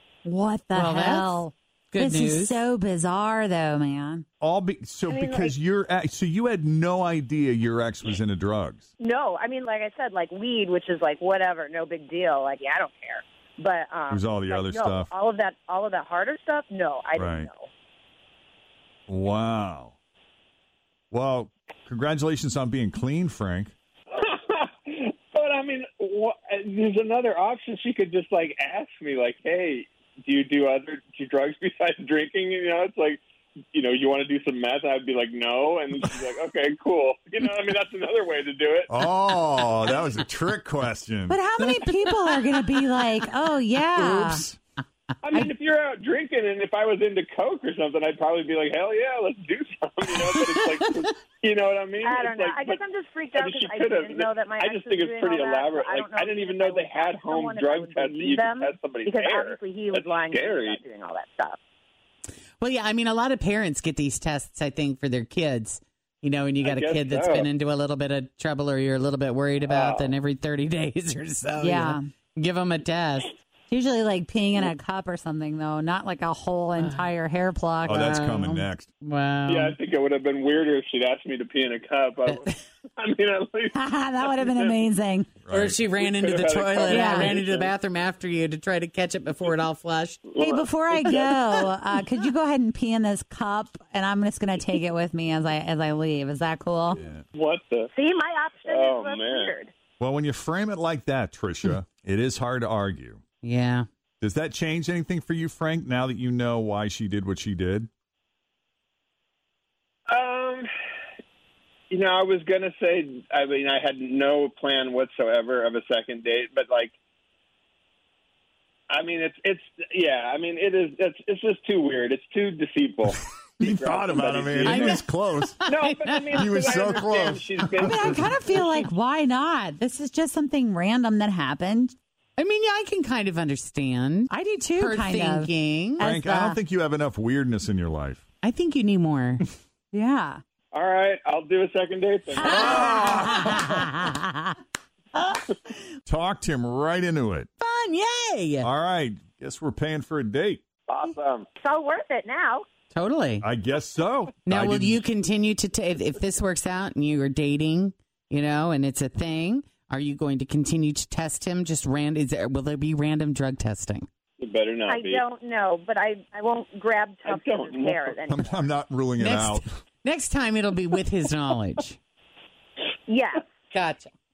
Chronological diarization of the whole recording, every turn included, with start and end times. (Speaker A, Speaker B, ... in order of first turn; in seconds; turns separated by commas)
Speaker A: 0.2-4.2, Speaker B: 0.7-2.5, Speaker C: 4.4-8.9, Speaker D: 5.1-5.5, Speaker D: 9.0-17.7, Speaker C: 14.1-15.1, Speaker C: 17.2-17.5, Speaker C: 19.1-19.9, Speaker C: 21.1-23.7, Speaker E: 24.1-33.2, Speaker E: 33.7-38.9, Speaker C: 38.9-41.4, Speaker A: 41.3-44.4, Speaker B: 41.7-42.1, Speaker C: 44.0-44.5, Speaker E: 45.2-52.8, Speaker D: 52.0-61.6, Speaker E: 53.3-60.8, Speaker B: 62.6-73.3, Speaker E: 66.6-67.5, Speaker E: 69.7-70.2, Speaker A: 71.6-72.0, Speaker A: 73.7-78.0, Speaker B: 76.8-77.1, Speaker B: 77.8-79.8, Speaker C: 77.8-78.9, Speaker E: 79.5-84.7, Speaker A: 83.7-85.4, Speaker C: 85.5-85.8, Speaker B: 85.5-90.4, Speaker E: 85.9-87.7, Speaker A: 86.9-87.4, Speaker E: 90.3-91.8, Speaker A: 90.4-97.0, Speaker C: 97.0-97.2, Speaker E: 97.3-97.9, Speaker D: 97.9-99.7, Speaker E: 98.7-99.5, Speaker C: 100.0-103.2, Speaker B: 103.4-103.9, Speaker C: 104.2-107.9, Speaker E: 110.1-110.7, Speaker E: 111.9-116.9, Speaker E: 118.9-125.0, Speaker C: 123.6-125.6, Speaker B: 124.7-125.0, Speaker B: 125.6-127.0, Speaker E: 125.7-128.9, Speaker C: 126.3-128.2, Speaker A: 127.8-131.9, Speaker B: 132.4-136.1, Speaker A: 134.3-136.6, Speaker C: 136.0-138.2, Speaker B: 138.4-139.4, Speaker A: 139.9-140.4, Speaker E: 140.7-143.4, Speaker A: 142.4-144.4, Speaker C: 142.5-143.6, Speaker C: 146.1-147.5, Speaker B: 147.6-148.7, Speaker C: 148.6-150.6, Speaker E: 150.9-151.4, Speaker D: 151.6-152.6, Speaker B: 152.9-153.5, Speaker C: 153.4-155.0, Speaker B: 154.5-164.1, Speaker E: 164.4-165.2, Speaker D: 164.9-168.5, Speaker E: 167.2-168.2, Speaker C: 168.3-169.6, Speaker B: 169.2-172.0, Speaker D: 173.1-173.4, Speaker B: 173.7-174.1